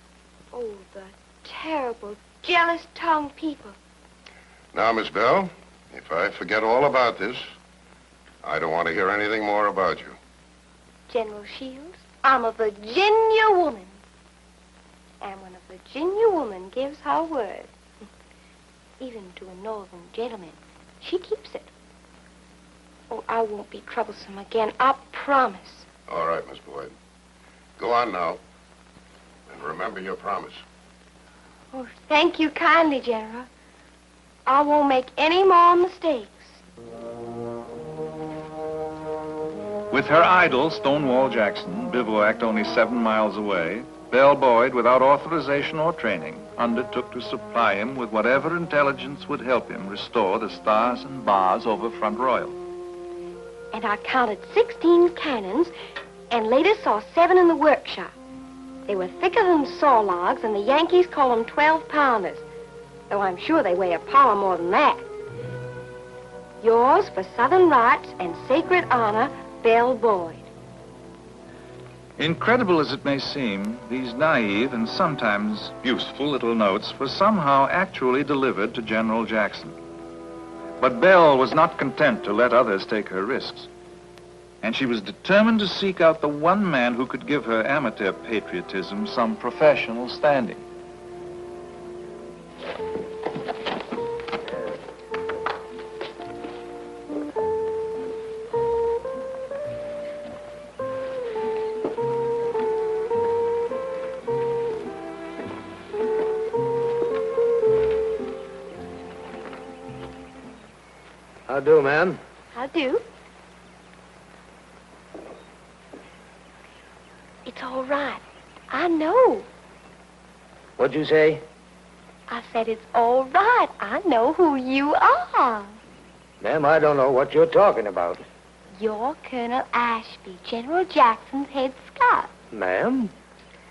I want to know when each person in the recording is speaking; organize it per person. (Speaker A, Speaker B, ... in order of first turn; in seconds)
Speaker A: 0.5-3.8, 11.1-14.0, 15.2-17.7, 19.0-21.7, 23.1-25.9, 31.7-33.5, 34.5-36.6, 53.7-55.7, 56.3-58.1, 58.9-62.4, 63.1-65.0, 66.6-70.5, 112.5-113.0, 117.5-119.5, 122.3-125.8, 128.8-132.3
Speaker B: 4.7-7.5, 8.4-10.2, 26.1-26.9, 27.8-28.4, 29.5-30.6
Speaker C: 39.9-52.5, 72.2-79.7, 80.8-83.7, 84.6-90.6
Speaker D: 111.5-112.2, 120.8-121.4, 126.4-128.2, 132.5-133.1